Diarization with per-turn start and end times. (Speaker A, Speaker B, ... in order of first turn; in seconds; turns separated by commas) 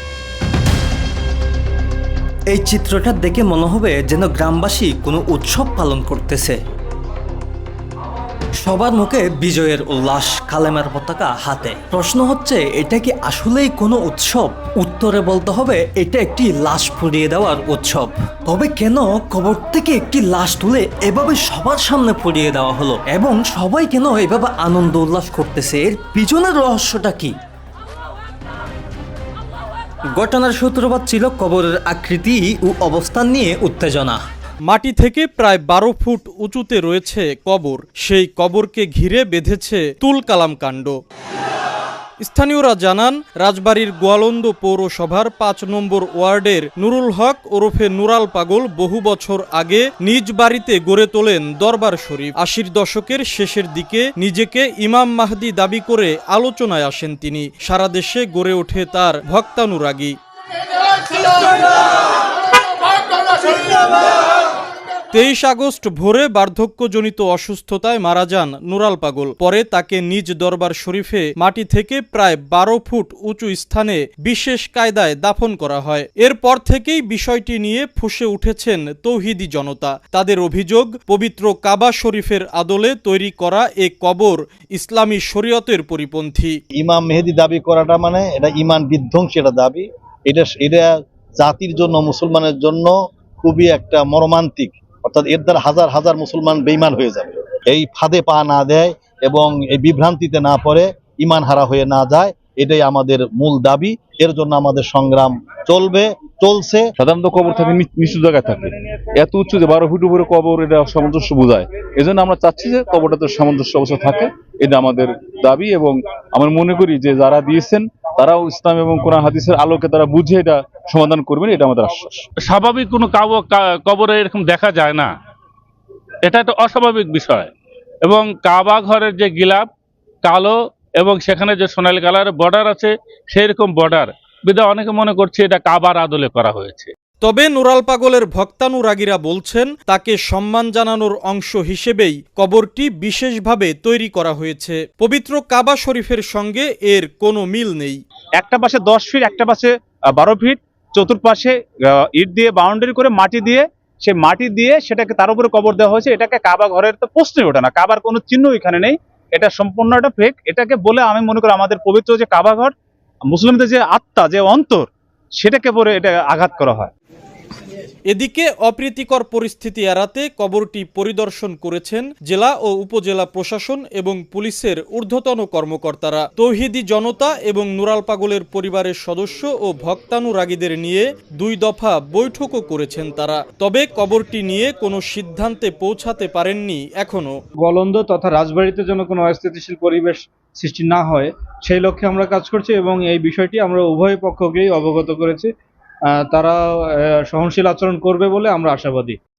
Speaker A: 2.5-6.5, Speaker A: 8.6-27.3, Speaker A: 30.1-34.2, Speaker B: 34.7-41.0, Speaker B: 42.2-60.1, Speaker B: 65.1-86.6, Speaker C: 86.8-106.8, Speaker D: 107.0-122.2, Speaker E: 122.4-125.1, Speaker E: 126.2-127.5, Speaker E: 128.0-129.7, Speaker E: 130.2-136.9, Speaker B: 137.2-148.0, Speaker F: 148.4-162.7, Speaker F: 163.3-164.9, Speaker F: 165.4-166.9, Speaker B: 168.1-187.3, Speaker G: 187.7-190.0, Speaker G: 190.7-195.4, Speaker G: 196.2-196.5, Speaker G: 197.3-198.9